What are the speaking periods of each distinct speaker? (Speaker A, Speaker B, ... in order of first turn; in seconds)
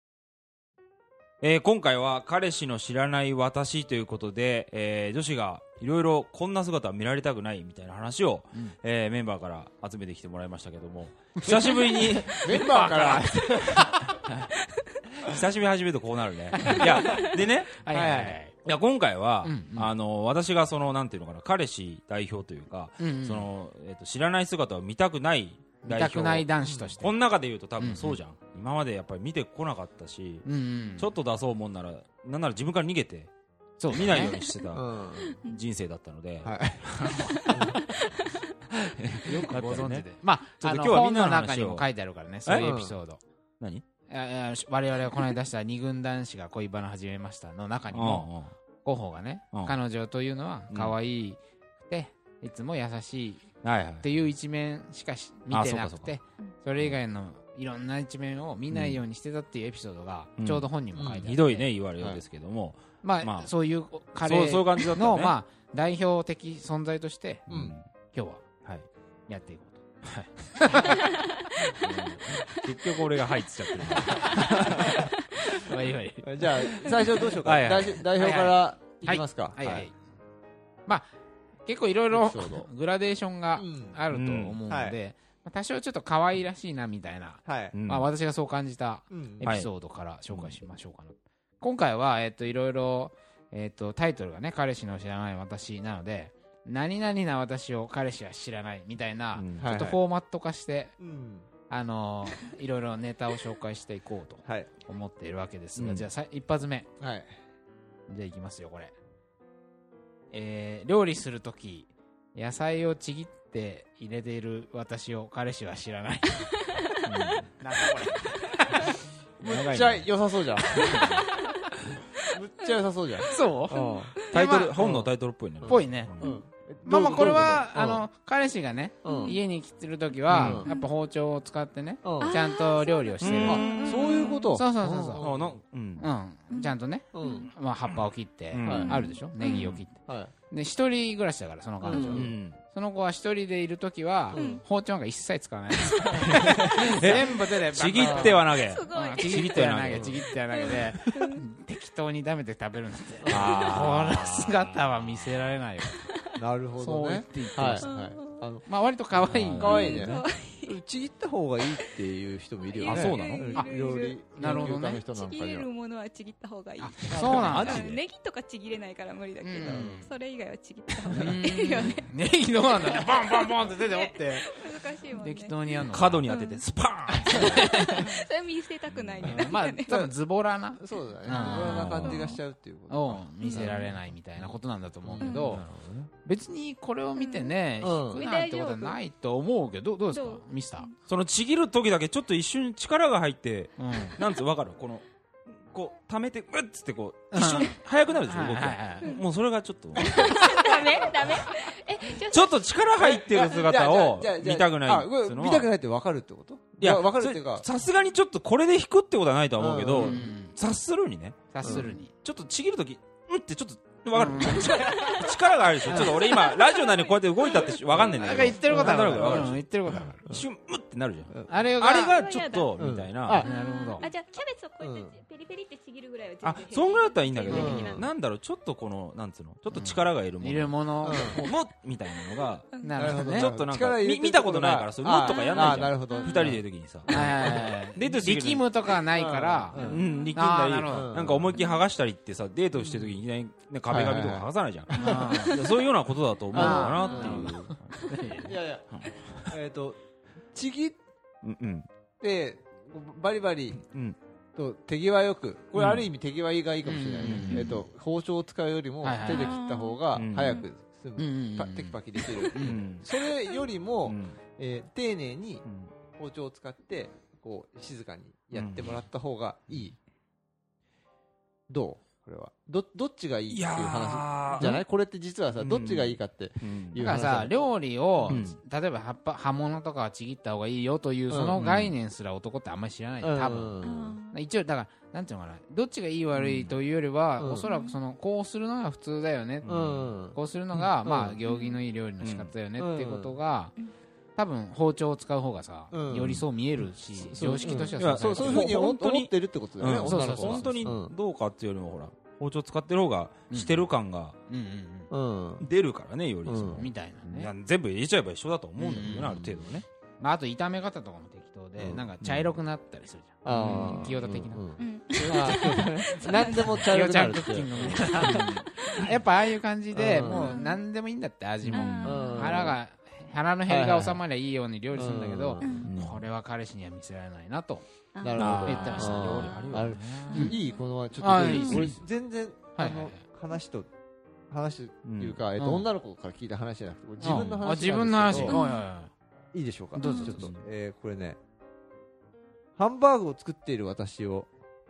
Speaker A: 1.4-12.6, 15.2-17.7, 18.5-26.5, 27.0-30.4, 31.0-33.3, 33.9-34.9, 35.5-37.8, 39.3-40.1, 40.6-41.9, 42.5-42.7, 47.9-48.5, 53.6-54.1, 55.5-56.1, 58.7-59.0, 60.4-63.5, 64.2-65.3, 67.5-67.9, 70.1-71.0, 71.8-74.9, 77.4-78.0, 84.1-84.6, 87.7-88.1, 89.4-89.7, 90.3-90.6, 99.3-99.7, 105.8-106.1, 117.0-117.5, 124.3-126.3, 126.9-127.6, 130.3-130.6, 133.2-134.0, 135.2-136.1, 138.5-139.8, 142.1-142.6, 146.3-150.3, 153.3-155.4, 159.2-160.1, 162.9-163.6, 167.2-168.0, 175.8-177.8, 178.9-179.3, 181.5-182.3, 185.5-186.1, 191.1-201.5, 202.2-205.7, 206.8-223.5, 226.4-238.7, 239.7-248.1, 249.0-249.5, 251.4-251.9, 253.8-254.2, 255.8-256.1, 257.2-257.8, 260.1-260.6, 262.6-263.1, 264.1-264.4, 265.7-265.9, 268.5-269.0, 273.5-274.8, 275.6-277.3, 278.3-278.6, 281.6-281.9, 286.4-286.7, 289.6-290.1, 292.2-292.5, 298.0-304.4, 305.6-309.9, 311.9-312.5, 313.6-314.2, 318.0-318.7, 321.7-322.2, 325.8-326.2, 328.4-330.0, 335.1-335.4, 340.3-340.6
Speaker B: 11.4-14.2, 16.5-18.5, 19.4-19.9, 23.0-23.5, 25.8-27.1, 27.8-28.2, 30.4-31.1, 33.8-34.4, 39.4-43.2, 44.1-48.3, 48.8-53.5, 54.0-61.7, 63.0-67.5, 68.1-68.4, 69.3-69.8, 70.5-72.0, 74.0-76.9, 78.2-80.0, 81.7-100.9, 101.7-106.9, 108.1-108.9, 110.3-116.5, 117.6-120.1, 120.8-121.3, 123.3-124.9, 125.7-126.2, 126.8-133.9, 134.5-135.3, 136.0-140.0, 140.5-156.0, 156.8-157.9, 158.7-160.1, 164.4-165.0, 166.8-167.9, 169.4-170.1, 171.1-176.3, 177.3-178.2, 179.3-182.2, 182.9-190.9, 193.8-194.2, 197.3-199.1, 210.0-210.6, 211.5-212.1, 214.1-214.8, 215.9-216.2, 218.2-220.2, 221.5-222.2, 223.3-224.1, 227.5-227.8, 229.7-231.5, 232.8-233.5, 237.1-239.8, 240.3-241.3, 245.0-245.6, 246.5-248.6, 256.9-257.8, 259.0-259.6, 261.2-262.8, 277.0-293.7, 294.4-298.8, 300.0-300.9, 303.5-303.9, 304.5-305.1, 306.8-307.5, 308.8-309.4, 310.2-315.7, 316.8-327.9, 328.6-330.6, 331.2-332.0, 332.8-333.2, 335.6-335.9, 337.2-339.1, 340.0-340.3
Speaker C: 12.3-14.2, 17.9-18.4, 26.6-26.9, 34.7-35.4, 36.4-37.9, 38.7-39.5, 42.6-43.0, 60.9-61.3, 67.5-67.8, 74.2-75.1, 76.2-79.9, 82.1-82.7, 83.6-84.0, 84.7-85.0, 87.5-87.8, 89.1-89.5, 99.6-100.0, 101.0-101.5, 107.0-107.3, 119.4-121.2, 122.3-124.2, 124.8-128.1, 129.0-129.4, 130.3-130.7, 132.0-132.4, 133.4-135.6, 137.1-137.5, 138.6-138.9, 140.0-140.3, 141.8-142.3, 144.3-144.6, 146.2-146.7, 147.9-148.4, 149.9-150.2, 153.2-153.8, 156.3-158.7, 159.5-165.7, 167.1-167.8, 169.6-170.0, 179.3-180.1, 180.8-183.8, 185.1-185.4, 187.8-188.2, 202.9-207.7, 209.6-210.3, 211.6-211.9, 214.5-215.0, 217.9-219.6, 221.3-221.7, 222.8-223.5, 224.8-225.2, 227.5-228.1, 231.0-231.4, 233.0-237.7, 239.1-240.1, 240.9-241.6, 242.8-243.2, 243.9-245.9, 246.5-247.6, 248.4-250.0, 250.5-251.0, 252.2-253.8, 254.6-265.6, 266.1-269.9, 271.7-277.6, 278.2-278.5, 281.3-281.7, 283.2-284.2, 287.4-287.7, 289.7-290.4, 291.0-291.4, 292.8-293.4, 295.9-296.4, 297.2-301.1, 305.1-305.7, 306.4-306.9, 309.0-309.7, 311.8-312.1, 313.4-319.1, 319.9-320.5, 322.0-322.8, 323.7-324.2, 324.9-325.9, 328.2-333.9, 334.5-338.6, 339.5-341.4, 342.8-344.5
Speaker D: 37.1-38.0, 120.8-121.6, 123.7-124.4, 129.1-129.4, 132.2-134.5, 136.5-137.5, 138.6-139.8, 141.9-142.3, 144.3-144.6, 145.9-147.2, 148.5-149.8, 150.5-151.4, 157.8-158.5, 159.6-160.8, 162.7-172.1, 172.8-175.6, 176.3-176.6, 177.3-180.0, 181.3-182.4, 183.4-184.0, 185.2-185.6, 187.2-187.5, 188.2-189.0, 190.1-190.9, 199.9-202.7, 214.7-217.9, 221.8-222.7, 223.4-228.1, 232.7-233.1, 235.2-236.5, 239.8-240.4, 241.5-241.8, 247.0-248.1, 259.2-260.7, 283.8-284.4, 287.6-288.0, 291.5-291.8, 297.6-297.9, 314.8-316.7, 320.3-320.8, 321.7-322.6, 325.6-325.9, 328.1-329.6, 330.3-330.8, 331.5-331.8, 338.5-338.8, 340.0-340.4